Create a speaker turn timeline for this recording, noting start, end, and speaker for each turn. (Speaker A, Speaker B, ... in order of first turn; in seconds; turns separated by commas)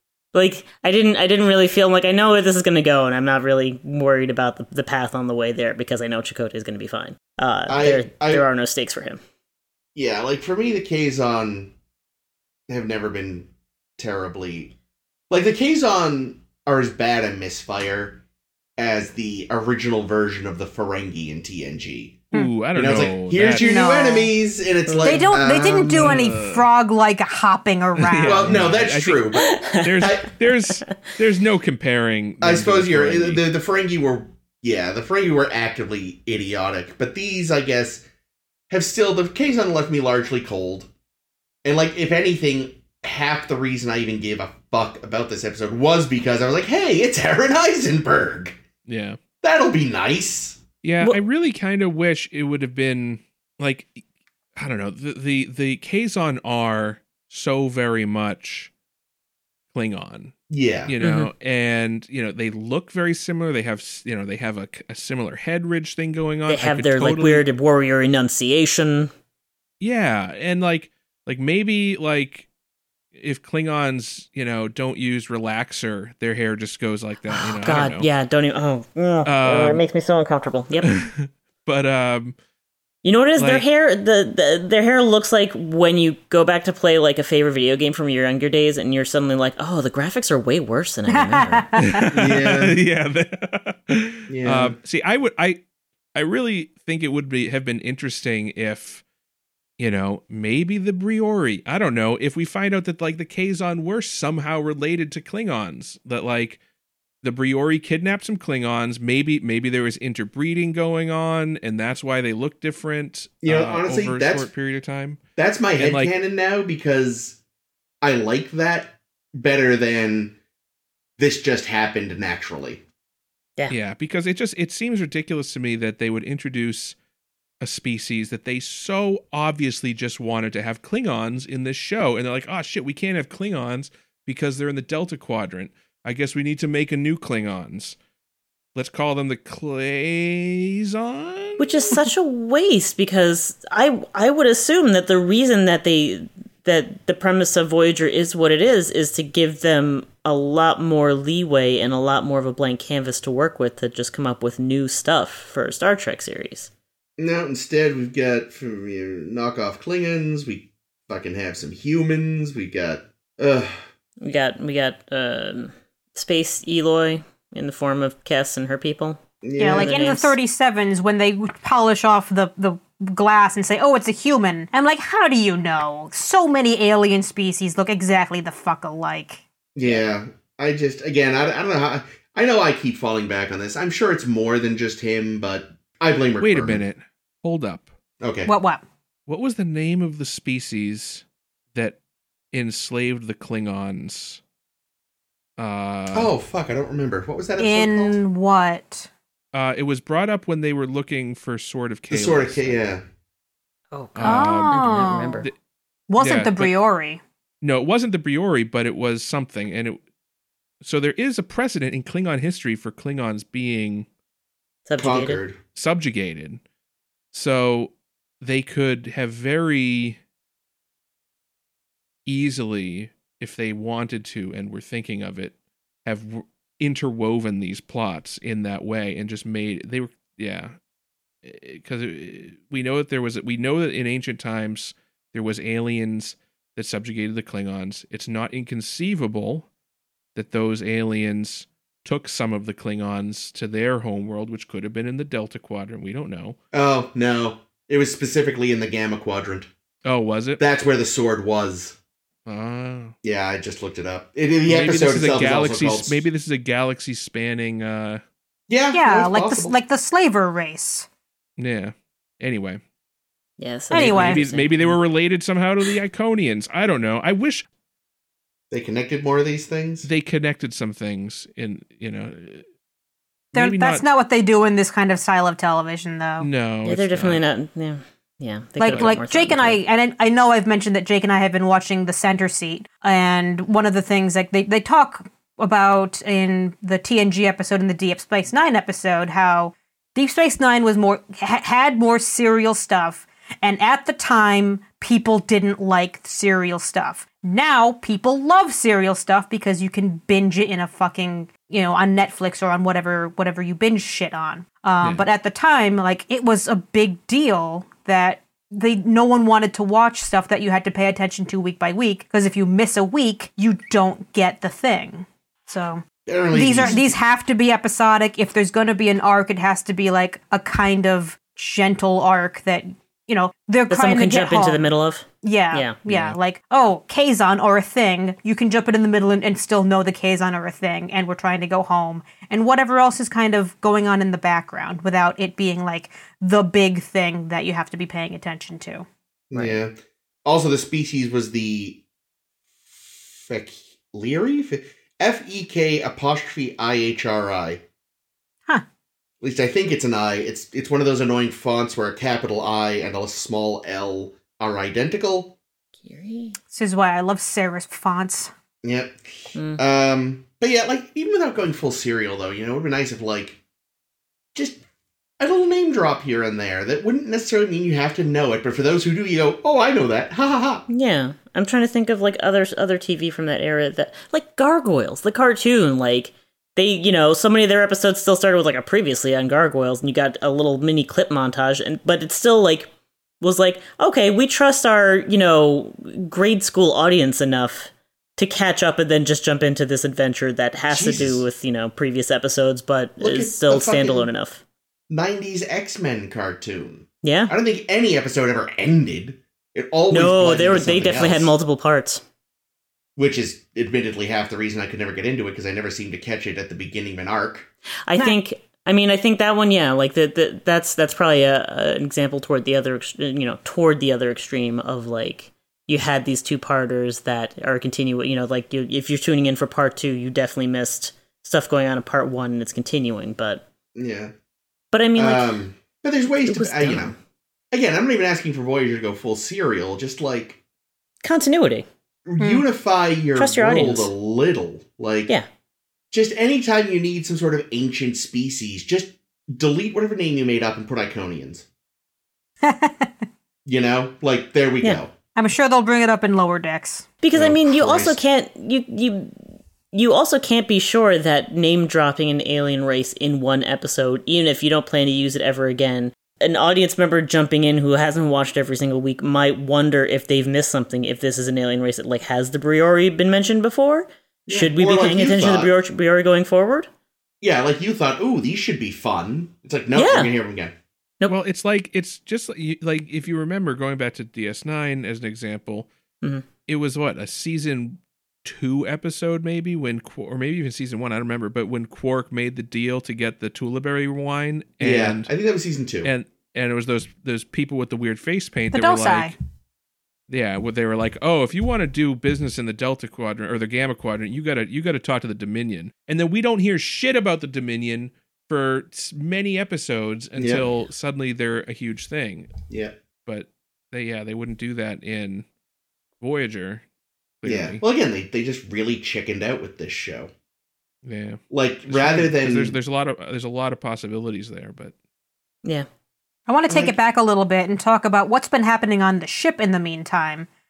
Speaker A: 0.3-9.2, Speaker B: 7.7-8.5, Speaker B: 9.9-11.7, Speaker B: 12.7-14.7, Speaker B: 15.3-18.2, Speaker B: 18.8-26.2, Speaker C: 22.3-23.8, Speaker D: 23.6-24.3, Speaker A: 24.9-25.3, Speaker D: 25.0-28.6, Speaker C: 25.9-26.7, Speaker C: 28.0-33.4, Speaker B: 28.2-30.3, Speaker A: 29.4-30.9, Speaker B: 32.4-38.0, Speaker B: 38.7-40.9, Speaker B: 41.6-48.6, Speaker C: 48.9-49.2, Speaker B: 49.4-50.6, Speaker C: 50.8-54.0, Speaker C: 54.6-58.7, Speaker C: 59.7-60.3, Speaker B: 60.5-60.9, Speaker C: 60.9-67.5, Speaker A: 61.0-61.3, Speaker A: 66.5-69.1, Speaker C: 69.8-72.5, Speaker C: 73.2-78.1, Speaker A: 77.3-81.0, Speaker C: 79.2-79.8, Speaker C: 80.8-82.4, Speaker A: 83.0-91.7, Speaker C: 83.4-83.7, Speaker D: 91.1-92.2, Speaker C: 91.9-95.6, Speaker B: 92.1-92.8, Speaker B: 94.3-94.8, Speaker C: 96.2-99.0, Speaker C: 99.8-106.6, Speaker C: 107.2-115.2, Speaker B: 113.4-114.5, Speaker B: 115.4-117.4, Speaker C: 115.8-116.2, Speaker B: 118.0-120.3, Speaker B: 121.2-122.8, Speaker C: 123.7-127.0, Speaker C: 127.6-138.0, Speaker C: 138.8-142.0, Speaker A: 141.6-156.7, Speaker B: 157.2-163.8, Speaker A: 164.2-170.4, Speaker B: 169.4-170.0, Speaker D: 169.6-179.4, Speaker B: 179.8-186.8, Speaker C: 186.4-187.9, Speaker B: 188.2-188.5, Speaker D: 188.4-188.8, Speaker C: 189.3-192.0, Speaker C: 192.5-194.4, Speaker C: 195.6-196.3, Speaker B: 196.1-198.2, Speaker D: 197.6-199.1, Speaker C: 199.5-202.8, Speaker B: 202.1-203.0, Speaker A: 203.9-205.5, Speaker C: 204.2-205.6, Speaker D: 204.2-205.5, Speaker D: 206.1-207.2, Speaker C: 206.2-206.7, Speaker C: 207.6-210.0, Speaker C: 210.8-214.1, Speaker A: 214.8-215.4, Speaker B: 215.0-215.6, Speaker C: 215.8-216.6, Speaker C: 217.3-220.2, Speaker C: 222.3-225.5, Speaker C: 226.1-230.8, Speaker C: 231.4-239.7, Speaker C: 240.3-246.6, Speaker B: 246.7-249.7, Speaker C: 250.1-250.6, Speaker B: 250.6-252.0, Speaker C: 252.5-253.2, Speaker B: 253.2-256.2, Speaker C: 254.7-258.2, Speaker B: 258.7-259.8, Speaker D: 258.9-261.1, Speaker C: 261.6-262.8, Speaker A: 263.6-265.0, Speaker D: 263.9-264.4, Speaker C: 264.0-267.7, Speaker B: 268.7-270.1, Speaker C: 270.0-272.6, Speaker C: 273.5-274.0, Speaker D: 273.5-276.5, Speaker C: 276.4-277.4, Speaker A: 276.8-279.8, Speaker D: 278.8-324.8, Speaker C: 278.9-279.2, Speaker B: 316.3-317.2, Speaker A: 323.9-326.4, Speaker D: 325.4-339.1, Speaker B: 339.5-342.0, Speaker B: 342.9-347.8, Speaker B: 349.4-355.6, Speaker A: 356.0-356.6, Speaker D: 356.7-358.5, Speaker B: 358.8-363.6, Speaker A: 359.6-359.8, Speaker B: 364.5-364.8, Speaker B: 365.4-370.9, Speaker A: 370.9-382.9, Speaker A: 383.4-394.6, Speaker B: 390.9-391.4, Speaker B: 393.2-394.3, Speaker B: 395.1-401.5, Speaker A: 397.2-397.5, Speaker A: 400.1-402.2, Speaker B: 403.2-407.7, Speaker A: 408.1-423.6, Speaker B: 423.9-424.3, Speaker A: 424.9-425.6, Speaker B: 425.2-427.1, Speaker A: 426.4-427.2, Speaker B: 427.7-430.6, Speaker A: 431.2-431.9, Speaker B: 432.3-435.3, Speaker D: 432.4-432.6, Speaker A: 433.4-434.1, Speaker B: 436.1-441.7, Speaker D: 442.6-443.2, Speaker B: 443.6-445.1, Speaker D: 445.4-447.1, Speaker A: 447.2-449.3, Speaker B: 447.3-448.2, Speaker A: 449.9-466.9, Speaker B: 464.5-465.7, Speaker B: 467.4-470.7, Speaker A: 469.9-470.3, Speaker C: 471.3-475.9, Speaker C: 476.7-485.3, Speaker B: 484.8-486.1, Speaker C: 486.0-489.4, Speaker D: 488.7-489.4, Speaker C: 490.3-502.5, Speaker B: 500.4-500.7, Speaker B: 502.7-502.9, Speaker C: 503.3-505.5, Speaker C: 506.2-506.8, Speaker C: 507.4-507.8, Speaker B: 507.4-510.3, Speaker C: 511.0-514.9, Speaker B: 511.5-512.8, Speaker D: 516.5-520.5, Speaker B: 516.7-517.0